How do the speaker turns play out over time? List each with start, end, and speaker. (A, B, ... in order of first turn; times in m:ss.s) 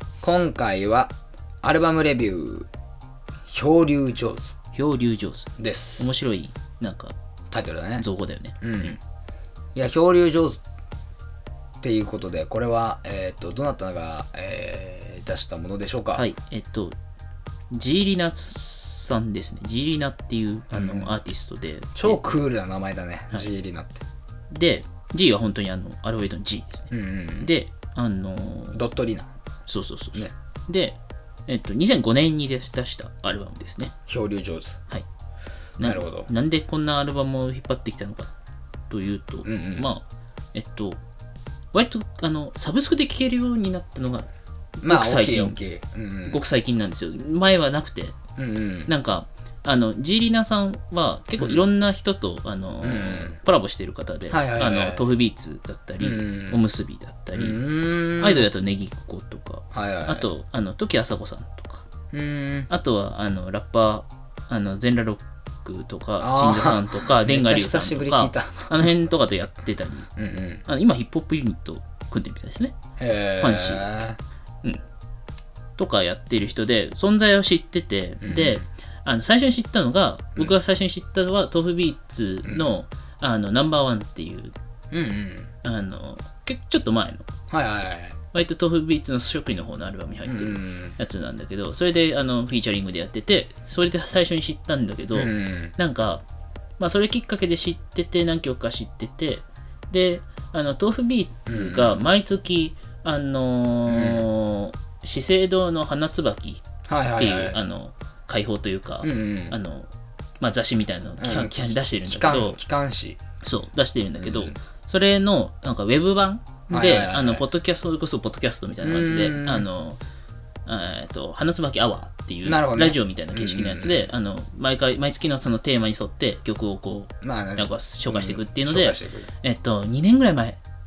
0:00.2-0:02.7 A
0:03.5-0:04.5 A
0:04.7-0:07.1 B
0:05.6-0:06.1 A
0:07.5-0:08.0 A
0:08.0-0:09.0 B
0:08.6-0:09.0 A
0:09.8-0:10.6 A
0:11.8-0:16.3 A
0:16.2-0:17.0 B
0:17.7-0:22.3 B
0:20.7-0:21.1 A
0:22.0-0:24.0 A
0:24.5-0:28.8 B
0:26.9-0:27.5 A
0:28.7-0:29.3 A
0:29.7-0:33.9 B
0:34.1-0:34.8 A
0:35.8-0:38.3 B
0:35.8-0:36.3 A
0:38.9-0:41.0 B
0:39.4-0:39.9 A
0:41.7-0:45.6 B
0:44.8-0:46.4 A
0:46.3-0:48.2 B
0:48.4-0:48.9 A
0:48.9-0:57.6 B
0:51.4-0:51.6 A
0:52.8-0:53.4 A
0:54.3-0:55.1 A
0:56.0-0:56.6 A
0:57.3-0:58.5 A
0:58.2-1:01.9 B
0:59.7-1:00.3 A
1:02.1-1:02.7 A
1:02.7-1:10.1 B
1:06.2-1:08.9 A
1:10.2-1:10.6 A
1:10.7-1:12.8 B
1:13.0-1:14.2 A
1:13.4-1:14.1 B
1:15.8-1:24.5 B
1:18.2-1:18.6 A
1:22.4-1:22.7 A
1:24.9-1:25.5 A
1:25.6-1:27.3 B
1:27.5-1:28.2 A
1:28.3-1:36.2 B
1:30.2-1:31.0 A
1:35.1-1:35.7 A
1:36.8-1:46.6 B
1:41.5-1:42.0 A
1:43.9-1:44.2 A
1:46.9-1:47.6 A
1:47.2-1:49.9 B
1:49.0-1:49.6 A
1:50.4-1:52.6 B
1:51.2-1:53.2 A
1:53.4-2:00.0 B
1:54.2-1:54.5 A
1:56.7-1:57.5 A
1:58.8-1:59.7 A
2:00.7-2:10.6 B
2:02.4-2:04.1 A
2:07.2-2:09.3 A